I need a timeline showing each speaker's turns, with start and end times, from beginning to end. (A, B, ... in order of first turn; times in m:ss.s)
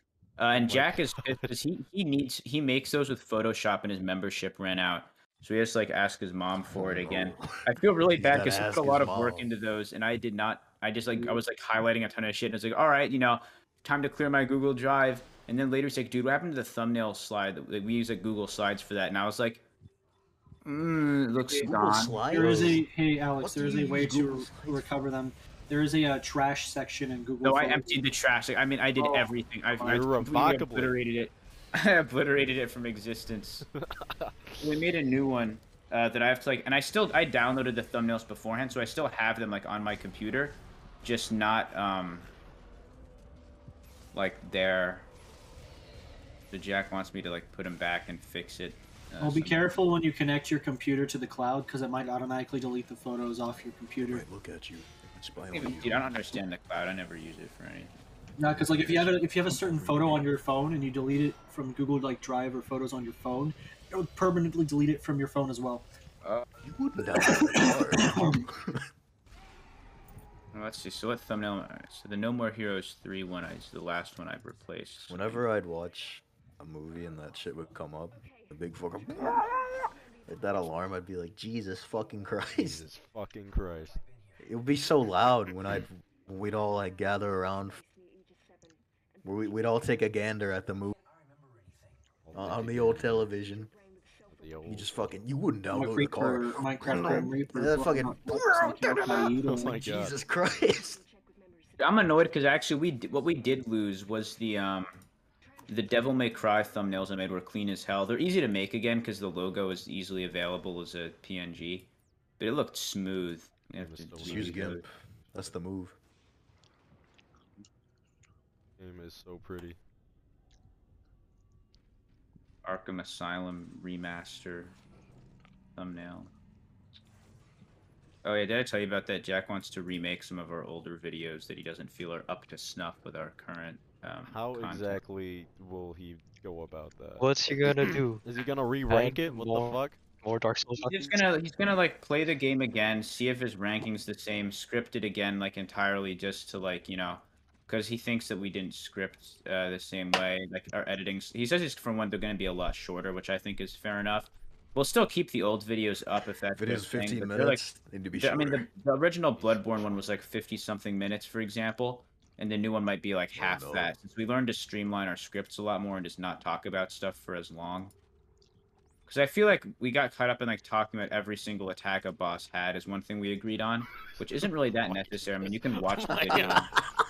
0:00.4-0:19.6 A
0:00.6-0:01.5 B
0:06.7-0:07.6 C
0:08.2-0:09.5 C
0:20.6-0:22.2 A
0:21.5-0:22.9 C
0:22.3-0:28.0 D
0:22.4-0:22.7 B
0:23.4-0:24.9 C
0:27.4-0:33.7 A
0:29.0-0:29.3 D
0:29.8-0:31.0 B
0:33.7-0:34.7 B
0:34.6-0:42.3 A
0:44.1-0:45.1 A
0:46.5-0:49.7 A
0:49.2-0:54.3 D
0:54.0-0:56.1 C
0:55.5-0:57.9 A
0:58.4-1:05.9 D
0:58.5-1:00.3 C
1:06.6-1:08.8 C
1:07.1-1:08.4 D
1:10.5-1:15.4 A
1:15.1-1:22.9 C
1:22.6-1:24.0 B
1:24.4-1:27.8 C
1:29.2-1:30.9 C
1:32.2-1:33.3 B
1:32.3-1:33.7 C
1:34.3-1:35.2 B
1:34.6-1:41.0 C
1:35.7-1:39.8 D
1:39.4-1:40.2 B
1:41.8-1:45.1 A
1:45.7-1:54.8 A
1:53.8-1:55.6 B
1:54.2-1:56.0 C
1:58.8-1:59.8 B
2:02.6-2:04.8 A
2:05.8-2:06.3 A
2:08.2-2:15.0 A
2:14.2-2:17.3 B
2:17.2-2:18.2 E
2:17.9-2:20.0 B
2:18.9-2:21.2 E
2:20.8-2:37.6 A
2:36.6-2:38.6 C
2:38.2-2:47.9 A
2:39.4-2:40.1 B
2:43.4-2:44.0 C
2:49.1-2:56.7 A
2:55.8-2:56.7 B